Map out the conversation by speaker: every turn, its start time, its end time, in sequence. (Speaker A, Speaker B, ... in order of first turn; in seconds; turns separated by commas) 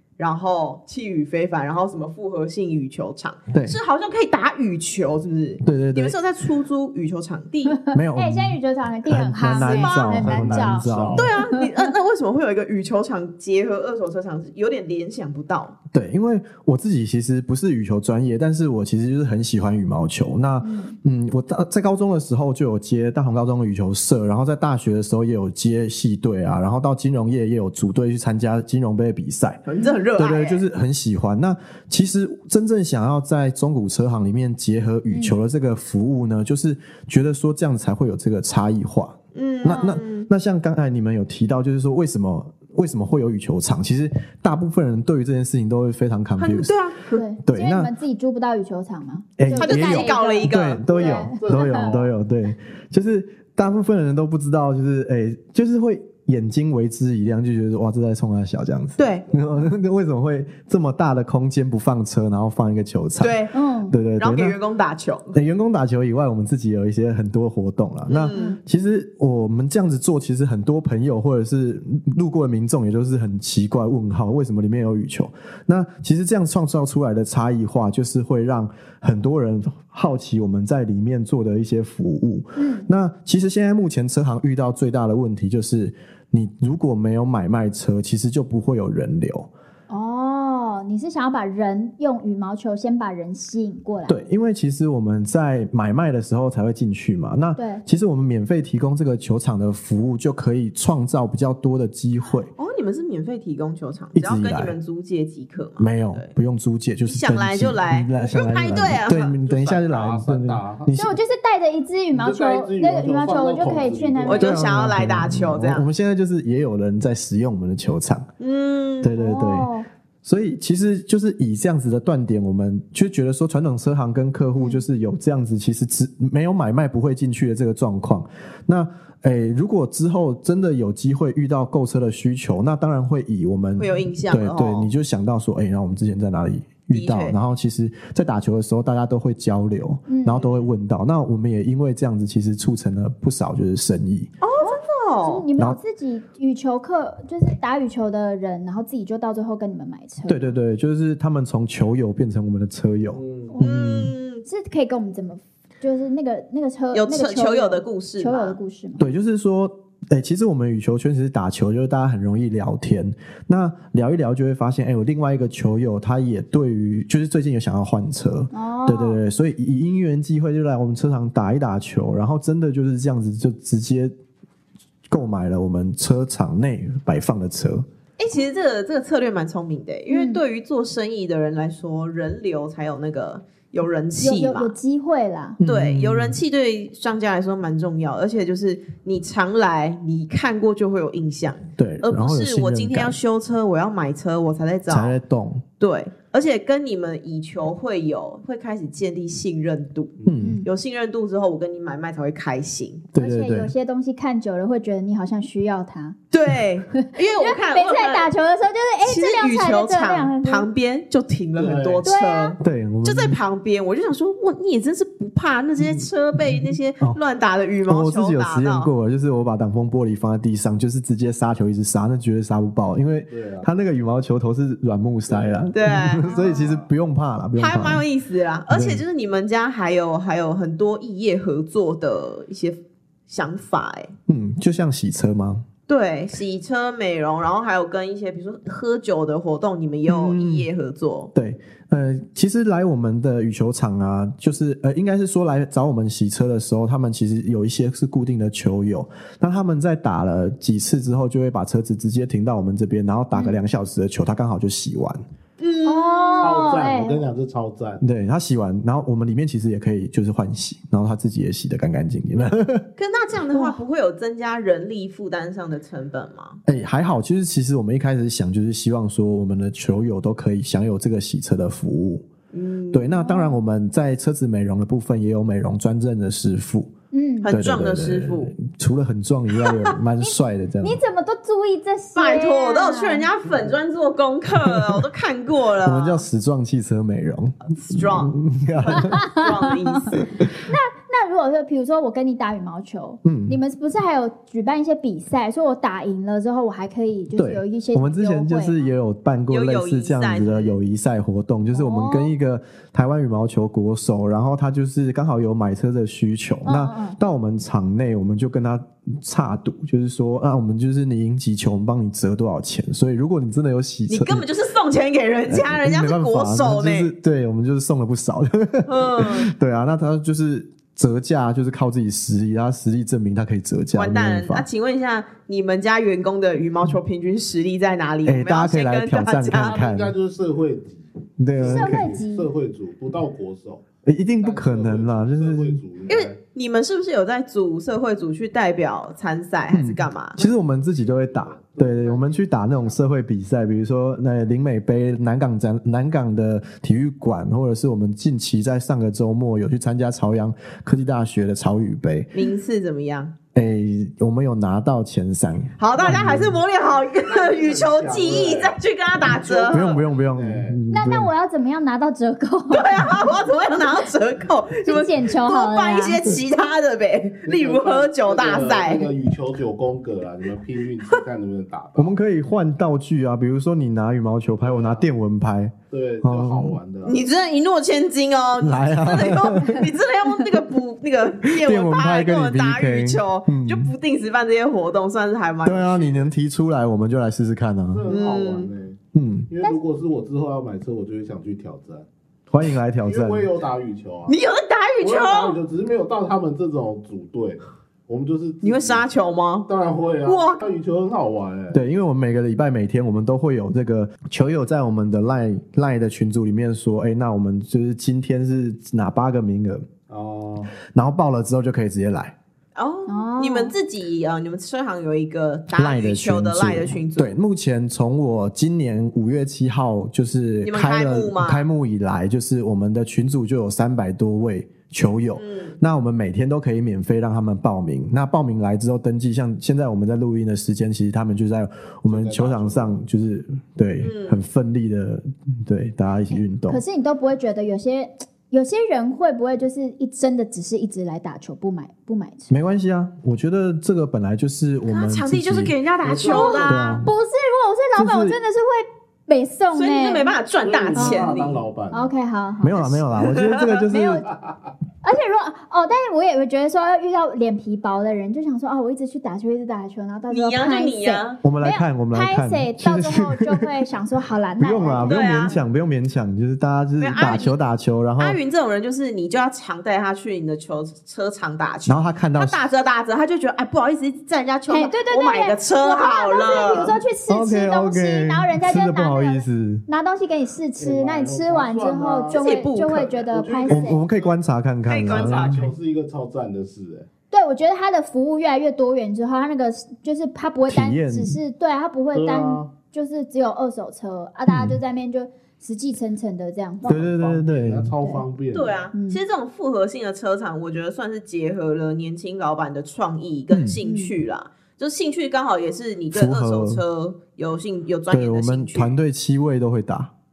Speaker A: 0.2-7.8, Speaker B: 3.5-3.8, Speaker B: 5.6-6.2, Speaker C: 7.7-11.9, Speaker B: 7.9-11.3, Speaker A: 9.6-10.2, Speaker D: 10.0-11.3, Speaker A: 11.1-15.8, Speaker B: 15.9-29.6, Speaker C: 20.6-21.0, Speaker A: 29.7-30.6, Speaker B: 30.1-46.7, Speaker C: 35.1-35.3, Speaker A: 39.3-40.3, Speaker A: 46.4-47.2, Speaker C: 47.1-51.9, Speaker B: 47.4-47.9, Speaker B: 49.4-64.6, Speaker A: 49.5-50.8, Speaker D: 50.9-52.1, Speaker A: 59.0-59.2, Speaker A: 63.2-63.5, Speaker C: 63.5-63.9, Speaker A: 64.2-65.4, Speaker B: 65.3-89.5, Speaker A: 68.1-68.6, Speaker C: 68.3-68.6, Speaker C: 82.6-82.9, Speaker C: 89.9-94.2, Speaker B: 94.1-102.5, Speaker C: 97.5-97.8, Speaker A: 102.6-106.3, Speaker B: 104.1-104.8, Speaker B: 105.8-111.2, Speaker A: 107.0-109.4, Speaker D: 109.4-110.9, Speaker C: 110.9-114.5, Speaker D: 112.1-114.6, Speaker A: 114.3-115.9, Speaker B: 114.3-118.3, Speaker A: 118.4-119.1, Speaker B: 119.0-119.7, Speaker C: 119.1-119.8, Speaker B: 120.2-144.3, Speaker C: 124.6-124.8, Speaker A: 133.8-134.9, Speaker A: 136.9-137.3, Speaker C: 140.1-140.4, Speaker A: 140.4-140.7, Speaker A: 144.4-145.4, Speaker C: 144.6-150.5, Speaker B: 150.3-154.1, Speaker D: 153.1-153.6, Speaker A: 153.6-154.4, Speaker C: 154.4-159.1, Speaker A: 156.9-158.6, Speaker B: 159.0-174.1, Speaker C: 168.5-169.2, Speaker B: 175.1-177.8, Speaker A: 178.2-184.7, Speaker C: 180.1-180.4, Speaker C: 184.2-185.6, Speaker B: 185.6-186.4, Speaker A: 185.6-195.1, Speaker B: 191.8-193.2, Speaker B: 194.9-195.6, Speaker A: 195.8-203.0, Speaker B: 200.2-200.6, Speaker C: 200.4-200.7, Speaker B: 203.1-203.7, Speaker C: 203.2-206.2, Speaker A: 206.3-208.3, Speaker C: 206.9-210.7, Speaker A: 209.0-218.9, Speaker D: 211.6-212.0, Speaker C: 212.0-212.5, Speaker B: 212.6-213.4, Speaker B: 215.8-217.2, Speaker B: 217.8-228.0, Speaker D: 223.3-223.7, Speaker D: 225.3-226.9, Speaker A: 225.7-226.3, Speaker C: 226.2-226.7, Speaker A: 227.6-234.1, Speaker B: 228.7-229.0, Speaker B: 234.3-235.6, Speaker A: 235.9-241.3, Speaker B: 240.1-240.7, Speaker B: 241.3-255.2, Speaker A: 255.6-256.6, Speaker C: 255.8-257.2, Speaker D: 256.4-258.0, Speaker B: 258.0-262.9, Speaker A: 263.0-266.6, Speaker C: 263.5-263.8, Speaker B: 266.6-272.2, Speaker A: 272.5-273.3, Speaker B: 272.9-276.9, Speaker C: 273.2-273.5, Speaker C: 277.1-277.5, Speaker A: 277.4-278.5, Speaker B: 277.5-281.0, Speaker A: 279.6-279.9, Speaker C: 280.2-283.3, Speaker A: 282.1-286.2, Speaker D: 283.5-283.7, Speaker B: 284.6-285.0, Speaker B: 285.8-289.2, Speaker A: 287.7-290.2, Speaker C: 289.0-298.8, Speaker B: 293.2-293.6, Speaker B: 297.4-314.4, Speaker A: 299.5-300.8, Speaker C: 301.7-302.3, Speaker C: 306.6-307.2, Speaker A: 314.1-317.1, Speaker B: 315.5-324.7, Speaker A: 318.9-319.5, Speaker A: 323.9-329.8, Speaker B: 328.2-330.1, Speaker D: 329.5-333.8, Speaker B: 331.4-332.1, Speaker C: 331.6-332.5, Speaker B: 334.0-335.8, Speaker D: 334.4-336.3, Speaker A: 336.1-340.5, Speaker B: 339.7-352.3, Speaker D: 340.9-343.0, Speaker A: 352.3-353.3, Speaker B: 353.5-356.6, Speaker A: 355.8-360.0, Speaker D: 356.0-360.8, Speaker B: 359.7-361.3, Speaker C: 360.9-363.2, Speaker A: 362.7-369.1, Speaker C: 364.8-366.2, Speaker D: 367.4-372.2, Speaker B: 372.0-376.8, Speaker D: 374.6-375.1, Speaker D: 375.9-377.2, Speaker A: 377.0-386.3, Speaker B: 378.6-379.9, Speaker B: 381.5-383.9, Speaker B: 385.6-388.1, Speaker D: 387.9-389.0, Speaker A: 388.1-388.7, Speaker B: 389.1-389.5, Speaker D: 389.5-392.1, Speaker B: 392.5-393.5, Speaker D: 393.0-394.3, Speaker A: 394.3-395.6, Speaker D: 395.0-399.0, Speaker A: 398.6-399.7, Speaker D: 399.7-401.8, Speaker A: 400.2-400.6, Speaker B: 401.7-409.9, Speaker D: 410.1-410.7, Speaker B: 410.9-412.3, Speaker A: 412.7-417.4, Speaker C: 413.1-413.7, Speaker B: 415.7-436.8, Speaker A: 420.6-421.6, Speaker A: 425.4-425.8, Speaker D: 432.1-433.0, Speaker A: 434.0-434.4, Speaker C: 436.7-442.5, Speaker B: 442.5-445.7, Speaker A: 444.9-446.9, Speaker D: 446.0-446.9, Speaker C: 446.2-450.3, Speaker B: 446.6-447.1, Speaker B: 447.9-448.4, Speaker A: 449.7-451.6, Speaker D: 450.6-452.1, Speaker C: 450.9-451.3, Speaker C: 451.9-453.0, Speaker B: 452.6-454.3, Speaker A: 453.1-453.8, Speaker C: 453.9-454.2, Speaker D: 454.2-454.7, Speaker C: 455.0-465.5, Speaker A: 460.3-461.4, Speaker B: 461.4-463.7, Speaker B: 464.6-468.4, Speaker A: 465.0-465.6, Speaker A: 467.0-467.6, Speaker A: 468.2-477.0, Speaker B: 471.9-472.6, Speaker C: 474.7-484.0, Speaker B: 477.3-479.8, Speaker D: 480.8-484.3, Speaker A: 482.3-483.1, Speaker B: 483.7-485.7, Speaker A: 484.9-485.6, Speaker D: 485.0-487.1, Speaker C: 487.3-497.0, Speaker B: 490.7-491.4, Speaker D: 492.1-492.7, Speaker B: 494.5-494.8, Speaker D: 496.8-498.8, Speaker B: 496.9-497.9, Speaker A: 498.5-508.9, Speaker C: 498.9-499.2, Speaker B: 503.5-503.8, Speaker C: 503.8-504.1, Speaker B: 506.1-506.8, Speaker B: 508.1-510.1